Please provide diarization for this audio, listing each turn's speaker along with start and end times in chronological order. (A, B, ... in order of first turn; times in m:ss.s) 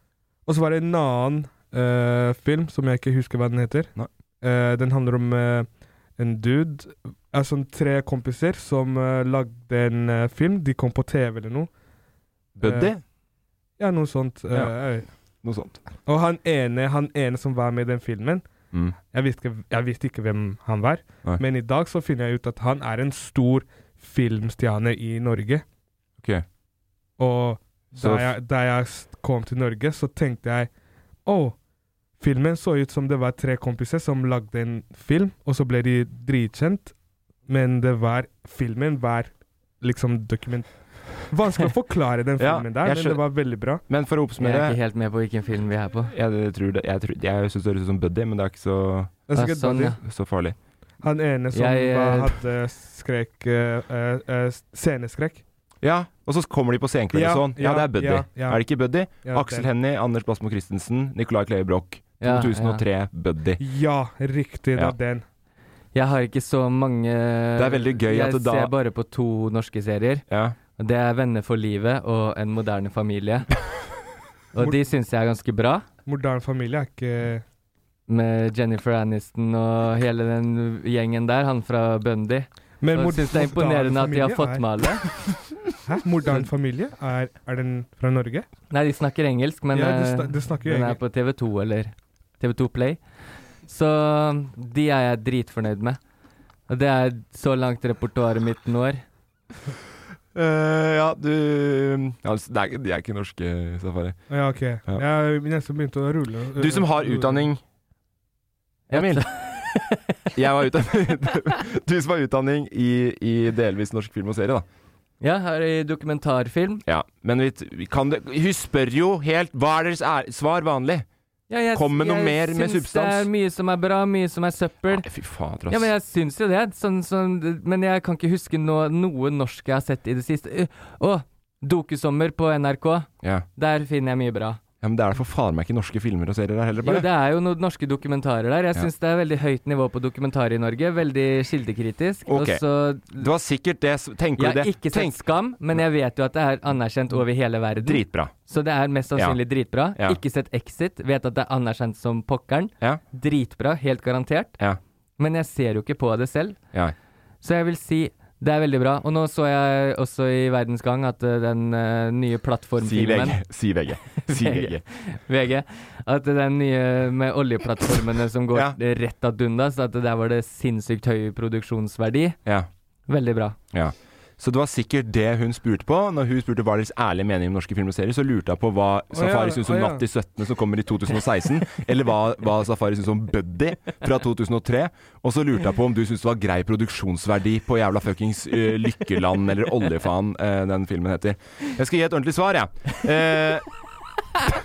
0:00.5-0:11.7 A
0:12.6-0:13.0 B
0:12.6-0:12.9 A
0:13.8-0:15.1 A
0:15.4-0:15.8 B
0:16.1-0:18.5 A
0:19.1-0:25.6 A
0:27.2-0:30.7 A
0:28.0-0:28.4 B
0:31.3-0:31.6 A
0:32.2-0:36.9 A
0:37.5-0:43.8 A
0:42.4-0:43.2 B
0:43.9-0:44.8 B
0:44.4-0:46.1 C
0:46.1-0:49.1 B
0:49.3-0:50.0 A
0:49.3-0:50.0 C
0:50.0-0:50.6 B
0:51.0-0:55.4 A
0:51.5-0:52.4 C
0:55.8-1:03.6 B
0:57.1-0:58.7 A
0:59.2-0:59.7 A
1:02.2-1:02.8 C
1:03.6-1:05.2 A
1:05.9-1:10.2 C
1:07.6-1:08.7 B
1:10.3-1:10.6 B
1:10.8-1:13.5 C
1:14.5-1:15.9 C
1:16.1-1:17.4 A
1:18.1-1:25.2 C
1:22.8-1:24.6 A
1:25.8-1:28.5 A
1:28.7-1:36.0 C
1:29.7-1:31.0 A
1:36.7-1:39.0 C
1:40.4-1:44.2 B
1:44.3-1:47.5 A
1:46.6-1:47.6 B
1:48.9-1:49.2 B
1:48.9-1:50.0 C
1:50.3-1:54.7 B
1:55.2-1:56.8 C
1:56.9-2:01.1 B
2:01.5-2:05.1 C
2:01.7-2:03.3 B
2:04.9-2:05.9 B
2:05.7-2:14.6 C
2:14.8-2:17.1 B
2:16.8-2:23.3 C
2:22.3-2:22.6 B
2:23.1-2:25.2 B
2:24.4-2:34.6 C
2:27.8-2:28.4 B
2:29.1-2:29.4 B
2:35.2-2:36.6 C
2:37.4-2:43.4 C
2:42.8-2:44.8 B
2:44.2-2:52.4 C
2:53.1-2:53.6 C
2:53.7-3:13.7 B
2:59.1-3:00.0 A